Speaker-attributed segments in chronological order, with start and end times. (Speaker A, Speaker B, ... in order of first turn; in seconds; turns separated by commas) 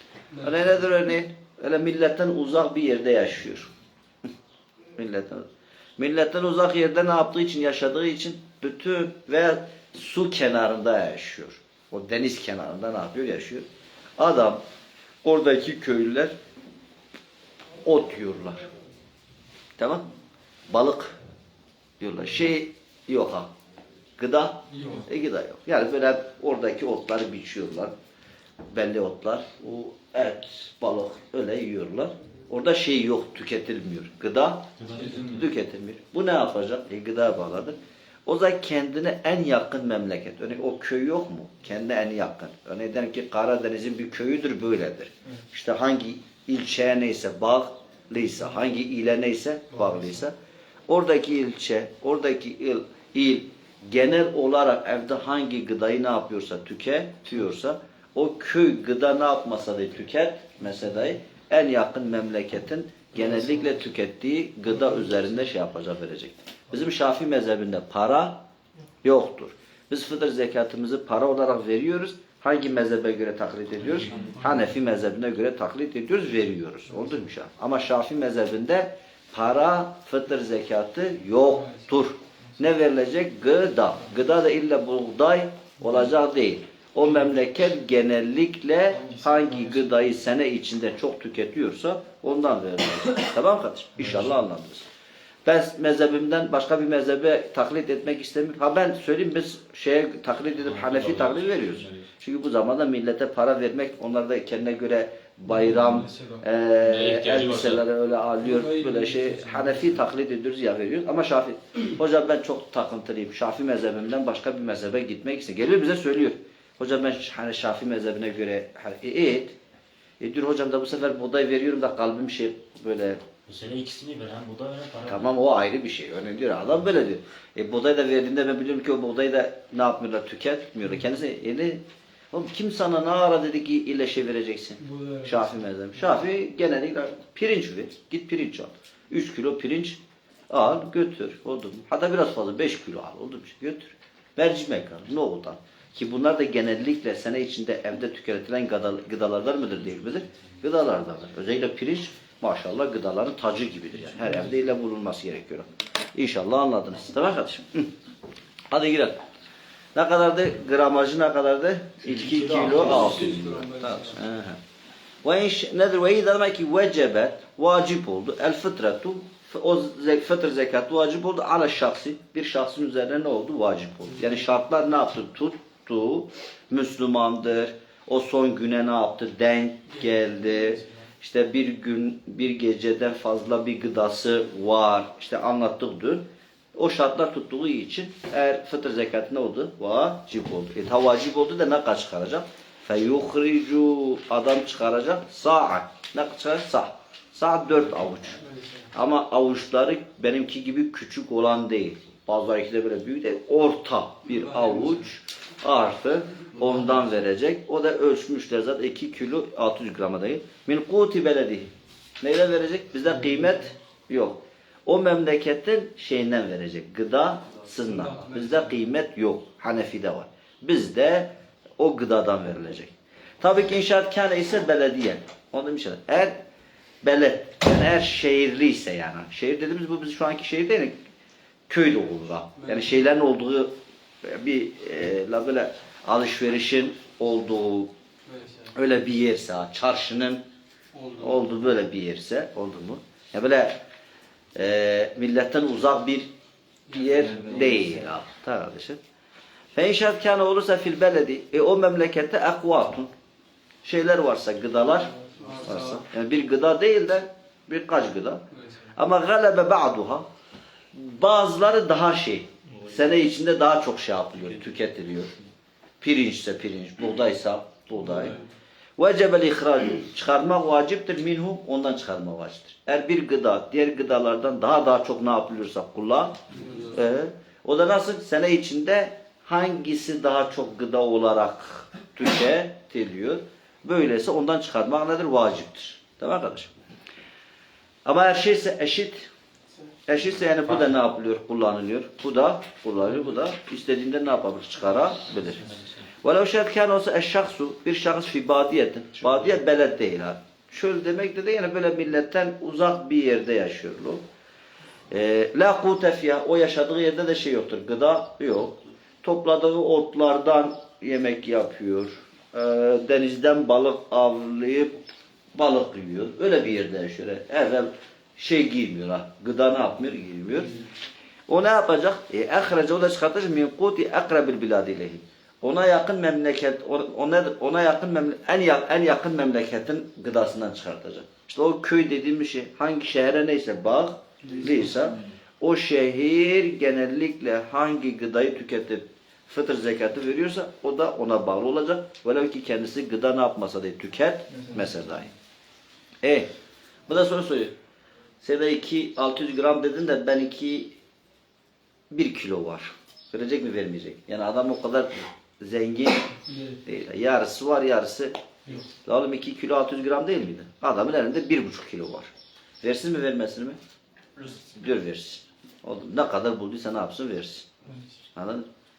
Speaker A: 0.4-3.7, Speaker A: 5.0-5.5, Speaker A: 6.0-13.7, Speaker A: 14.2-14.6, Speaker A: 15.2-16.3, Speaker A: 17.8-18.6, Speaker A: 19.8-20.0, Speaker A: 20.7-21.2, Speaker A: 22.0-23.5, Speaker A: 24.2-27.9, Speaker B: 24.7-25.1, Speaker A: 28.7-50.3, Speaker C: 34.8-35.5, Speaker B: 49.8-50.0, Speaker A: 50.9-68.4, Speaker B: 63.2-63.7, Speaker B: 64.8-65.3, Speaker A: 69.0-94.9, Speaker C: 74.0-74.6, Speaker B: 74.1-74.7, Speaker B: 89.0-90.0, Speaker C: 94.0-94.4, Speaker A: 95.5-119.6, Speaker C: 100.6-102.1, Speaker B: 105.5-106.5, Speaker C: 106.8-107.8, Speaker B: 108.4-110.0, Speaker A: 120.2-123.2, Speaker C: 123.5-125.2, Speaker A: 125.1-157.9, Speaker B: 134.8-136.2, Speaker A: 158.7-159.2, Speaker A: 159.9-164.6, Speaker C: 162.1-163.4, Speaker B: 162.6-164.2, Speaker A: 165.2-198.4, Speaker B: 180.0-180.9, Speaker A: 198.9-226.4, Speaker B: 204.5-205.0, Speaker B: 213.2-213.6, Speaker B: 217.9-218.7, Speaker A: 227.0-231.0, Speaker A: 231.7-237.9, Speaker B: 232.6-232.9, Speaker B: 238.3-238.7, Speaker A: 238.7-240.4, Speaker B: 240.9-241.5, Speaker A: 241.2-243.8, Speaker A: 244.6-246.3, Speaker A: 246.9-249.0, Speaker B: 246.9-247.8, Speaker A: 249.8-253.1, Speaker A: 253.8-258.4, Speaker B: 255.3-256.0, Speaker B: 258.6-258.9, Speaker A: 258.9-260.3, Speaker A: 260.9-265.3, Speaker C: 262.7-263.2, Speaker A: 266.0-268.4, Speaker B: 268.1-268.5, Speaker A: 269.0-286.7, Speaker B: 276.5-277.0, Speaker A: 288.1-289.3, Speaker A: 290.1-304.2, Speaker C: 295.1-296.1, Speaker A: 305.1-315.0, Speaker A: 315.6-320.9, Speaker A: 321.5-345.3, Speaker B: 334.5-334.8, Speaker A: 346.2-346.5, Speaker A: 347.1-347.7, Speaker A: 348.4-350.9, Speaker A: 352.1-358.3, Speaker B: 356.5-356.8, Speaker A: 359.1-362.3, Speaker A: 362.8-363.8, Speaker A: 364.7-367.7, Speaker A: 368.4-368.7